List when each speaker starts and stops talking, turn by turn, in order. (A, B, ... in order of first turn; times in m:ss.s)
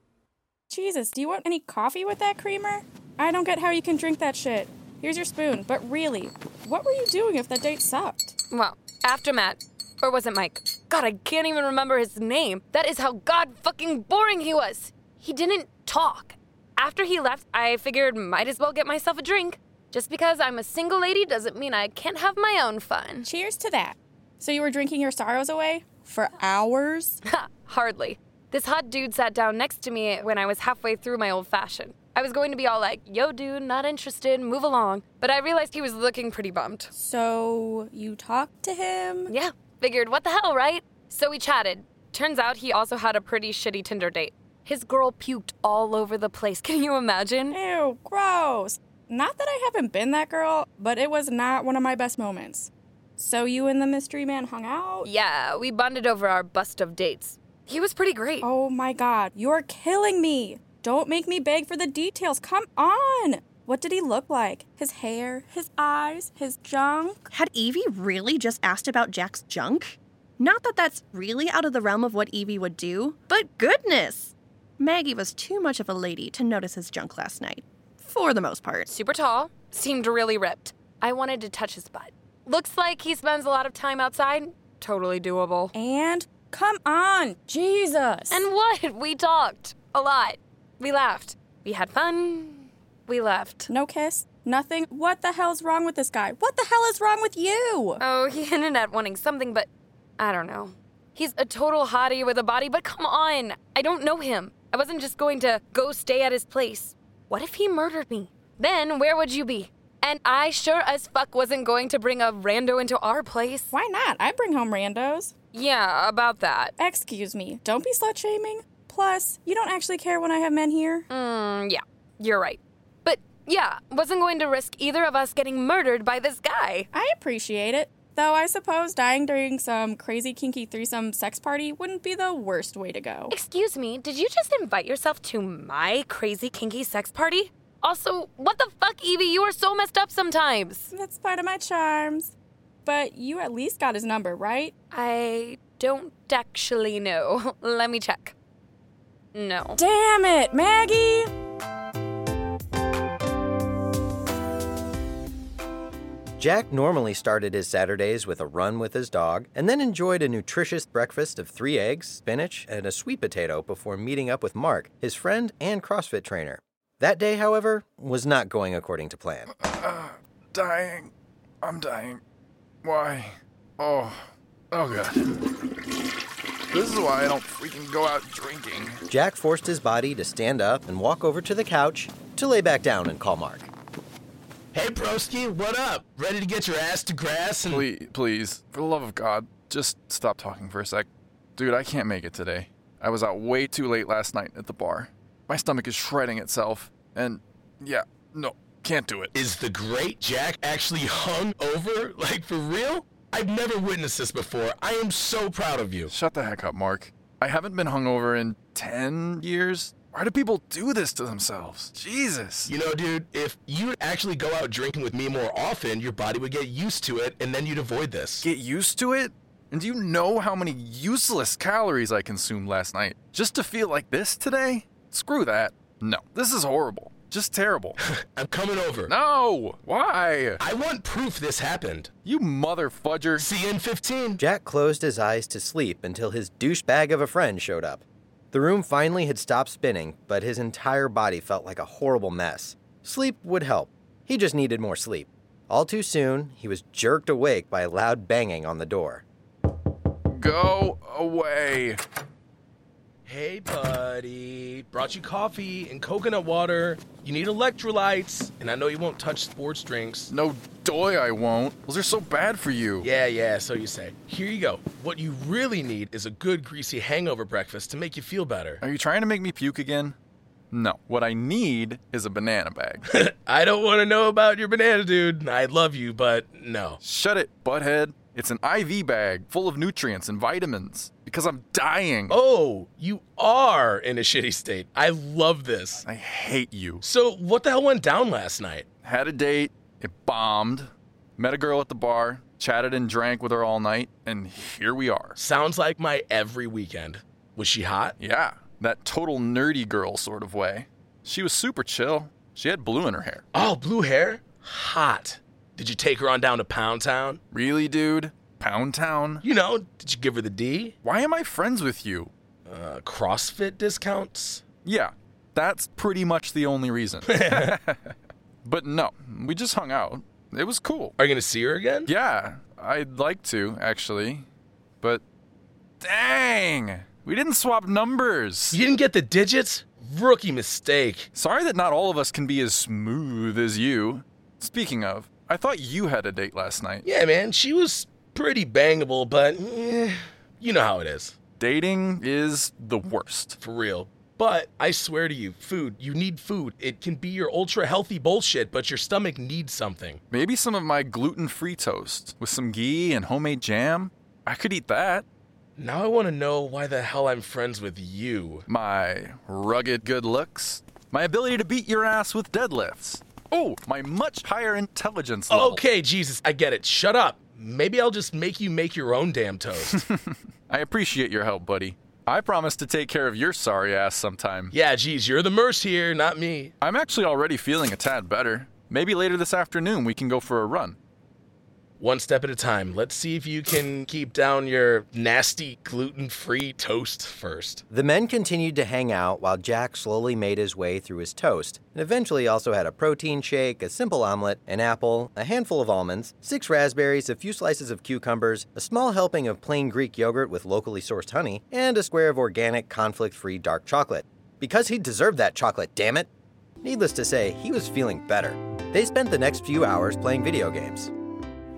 0:00.7-0:08.3 A
0:08.5-0:23.3 B
0:23.2-0:27.2 A
0:27.3-0:36.9 B
0:36.9-0:39.3 A
0:39.3-0:47.6 B
0:47.5-0:55.1 A
0:55.0-0:58.5 B
0:58.4-1:07.2 A
1:07.3-1:18.9 C
1:18.9-1:25.7 B
1:25.7-1:28.4 A
1:28.3-1:33.7 B
1:33.7-1:38.0 A
1:38.0-1:39.7 B
1:40.2-1:53.7 B
1:53.7-1:55.3 A
1:55.5-1:56.7 B
1:56.8-2:01.1 A
2:01.1-2:06.9 B
2:06.9-2:13.3 A
2:13.3-2:20.9 B
2:20.9-2:22.3 A
2:22.8-2:24.7 A
2:24.9-2:28.3 B
2:29.3-2:29.8 B
2:29.8-2:31.3 A
2:36.4-2:49.5 D
2:49.5-2:51.1 E
2:51.6-2:52.2 E
2:52.8-2:55.4 E
2:56.7-2:59.0 E
2:59.1-3:03.7 D
3:04.7-3:07.8 F
3:07.7-3:19.3 E
3:19.3-3:26.1 F
3:26.1-3:32.7 E
3:32.7-3:38.4 F
3:38.4-3:48.0 E
3:48.3-3:49.1 F
3:49.0-3:50.6 E
3:50.6-3:52.1 F
3:52.2-3:53.5 E
3:53.4-3:54.4 F
3:54.4-4:09.2 D
4:10.3-4:12.0 E
4:13.2-4:20.3 F
4:20.3-4:23.0 E
4:23.0-4:28.8 F
4:28.8-4:30.2 E
4:30.7-4:33.0 E
4:33.1-4:37.0 F
4:37.0-4:42.4 E
4:42.3-4:46.0 F
4:46.0-4:47.0 E
4:47.0-4:48.9 F
4:49.0-4:55.4 E
4:55.4-4:58.1 F
4:58.2-5:03.4 E
5:03.5-5:07.4 F
5:07.5-5:09.4 E
5:09.4-5:10.9 F
5:11.0-5:12.3 E
5:12.6-5:14.6 F
5:14.8-5:18.1 E
5:17.2-5:17.8 F
5:18.6-5:21.1 E
5:21.2-5:22.1 F
5:22.0-5:24.5 E
5:26.0-5:28.8 E
5:28.7-5:31.3 F
5:31.3-5:37.0 E
5:37.0-5:41.4 F
5:41.6-5:43.6 E
5:43.6-5:50.2 F
5:50.3-5:55.2 E
5:55.8-5:58.6 F
5:58.7-6:05.8 E
6:05.5-6:10.0 F
6:10.7-6:14.7 E
6:14.7-6:16.7 F
6:16.8-6:21.0 E
6:22.0-6:27.8 F
6:27.9-6:46.3 D
6:46.8-6:51.1 D